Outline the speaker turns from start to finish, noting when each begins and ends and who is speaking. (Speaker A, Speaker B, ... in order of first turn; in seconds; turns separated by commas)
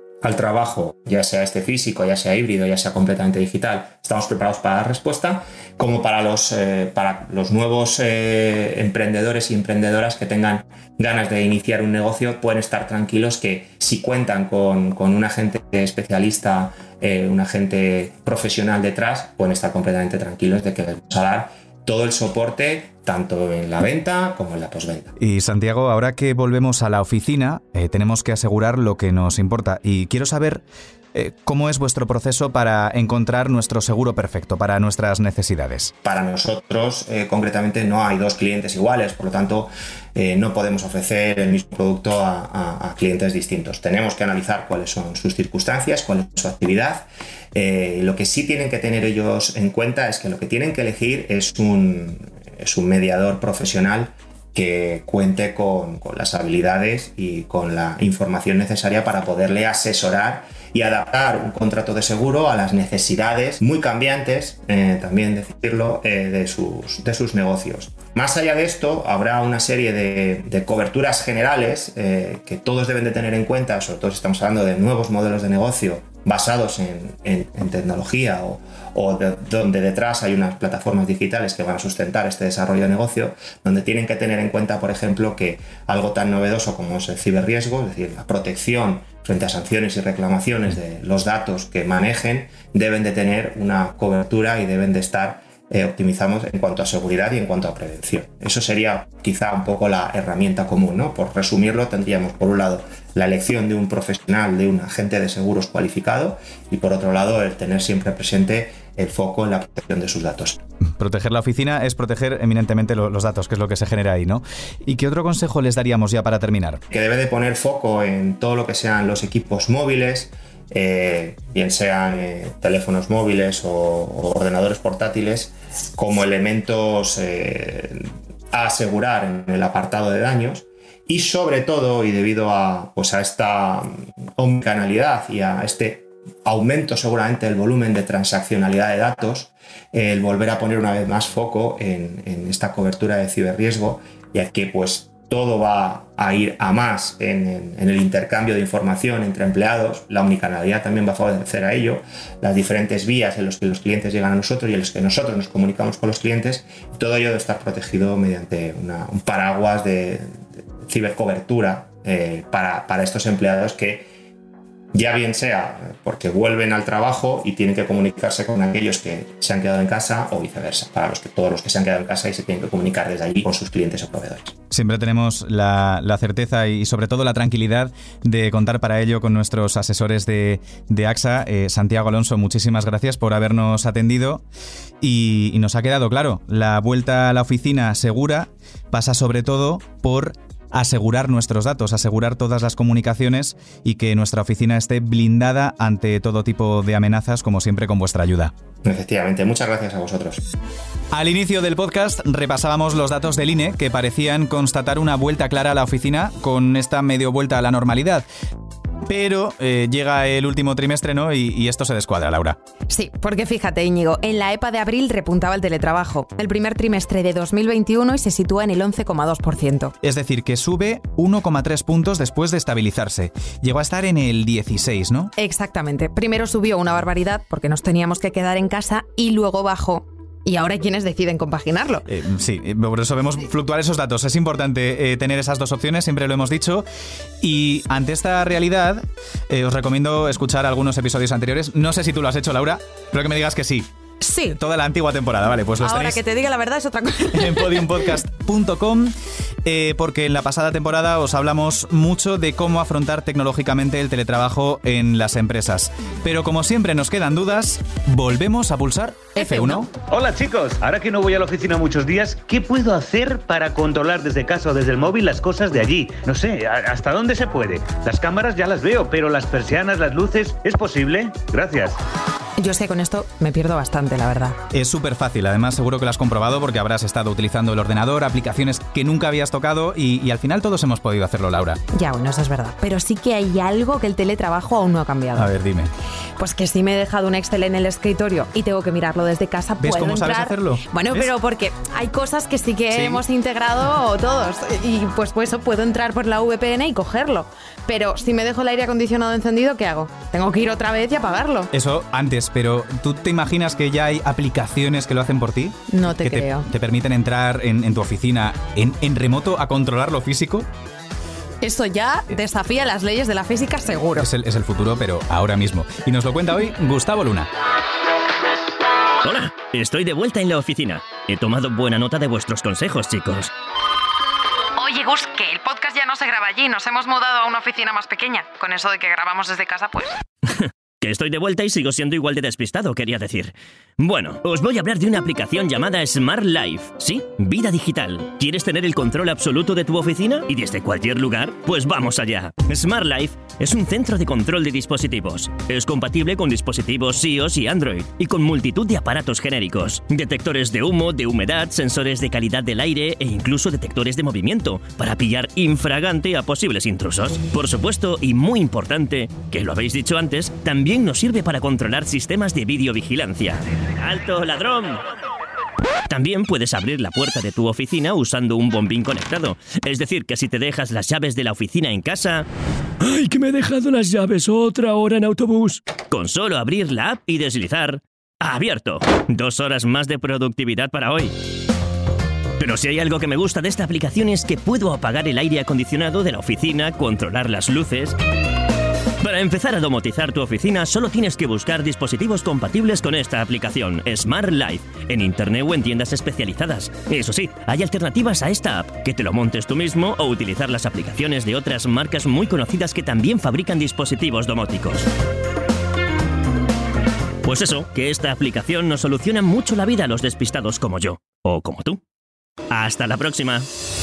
Speaker A: 0.2-25.1, Speaker B: 25.2-35.9, Speaker A: 36.0-110.6, Speaker B: 110.8-116.8, Speaker A: 116.9-164.1, Speaker A: 164.9-174.6, Speaker B: 174.7-184.4, Speaker B: 185.0-198.5, Speaker A: 198.8-200.4, Speaker B: 201.1-208.2, Speaker B: 209.1-212.6, Speaker C: 212.9-219.9, Speaker B: 220.0-225.3, Speaker C: 225.4-232.0, Speaker B: 232.1-236.8, Speaker B: 237.4-243.9, Speaker C: 244.2-244.6, Speaker B: 244.5-246.2, Speaker C: 245.8-248.1, Speaker B: 247.3-249.1, Speaker B: 249.6-259.9, Speaker C: 259.4-259.9, Speaker D: 260.1-271.9, Speaker C: 272.6-274.6, Speaker B: 274.7-281.8, Speaker C: 281.9-285.5, Speaker B: 285.3-285.9, Speaker C: 286.4-301.7, Speaker B: 289.8-291.3, Speaker B: 292.9-293.2, Speaker B: 301.7-310.7, Speaker C: 305.9-306.6, Speaker C: 311.6-314.2, Speaker B: 314.2-317.5, Speaker E: 319.2-323.5, Speaker C: 324.8-330.2, Speaker E: 331.0-365.0, Speaker E: 366.1-372.4, Speaker E: 373.0-381.3, Speaker E: 382.6-388.1, Speaker E: 389.2-405.1, Speaker E: 407.4-412.0, Speaker E: 412.7-413.6